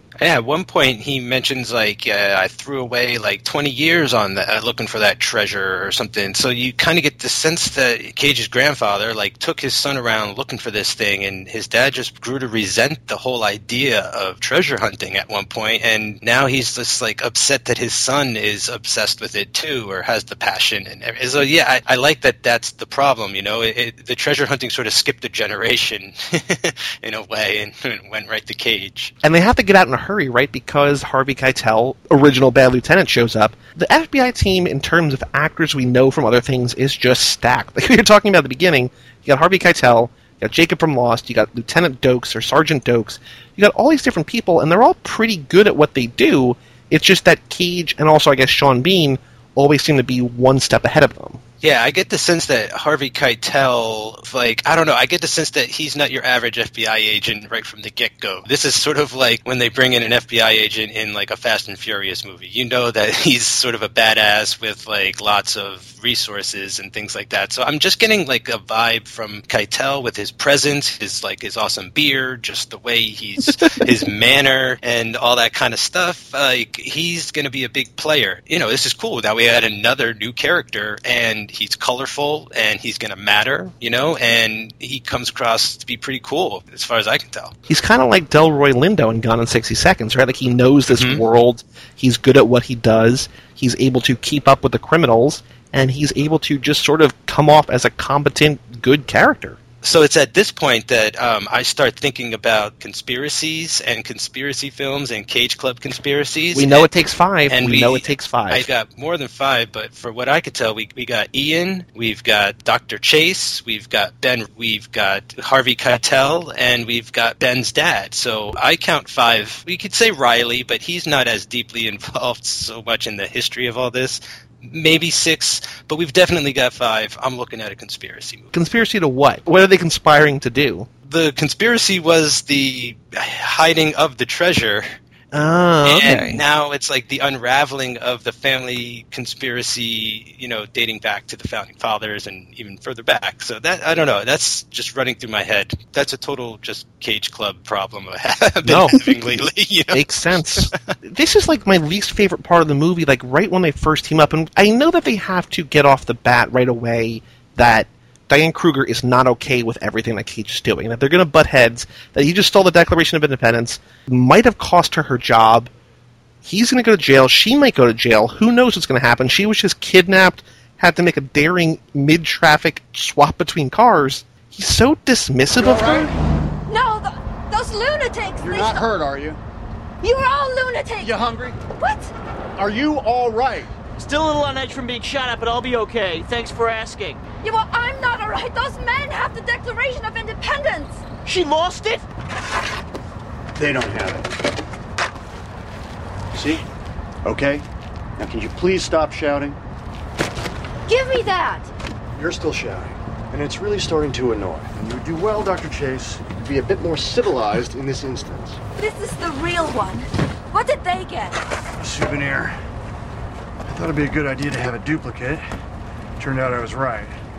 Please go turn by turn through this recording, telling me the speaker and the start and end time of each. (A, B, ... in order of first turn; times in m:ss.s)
0:00.2-0:29.1 A
0:29.2-0:51.4 B
0:51.6-1:27.5 A
1:27.7-1:39.6 B
1:30.9-1:31.2 A
1:39.8-1:46.9 A
1:46.5-1:48.7 B
1:47.5-2:08.5 A
2:08.5-2:10.9 B
2:11.1-2:14.8 A
2:15.3-2:16.4 B
2:15.8-2:30.8 A
2:28.6-2:29.2 B
2:29.9-2:45.7 B
2:46.4-2:56.1 B
2:55.6-2:56.0 C
2:56.7-2:58.9 D
2:58.4-2:59.4 C
3:00.0-3:01.2 D
3:01.0-3:01.6 C
3:01.7-3:02.1 D
3:02.6-3:03.7 C
3:04.0-3:07.2 E
3:07.4-3:11.0 D
3:11.2-3:12.0 E
3:13.6-3:14.4 C
3:16.3-3:16.6 C
3:17.2-3:17.6 C
3:18.2-3:19.6 C
3:20.9-3:21.7 D
3:22.2-3:28.6 C
3:28.8-3:31.3 D
3:31.7-3:32.6 C
3:33.6-3:35.4 C
3:36.2-3:37.2 C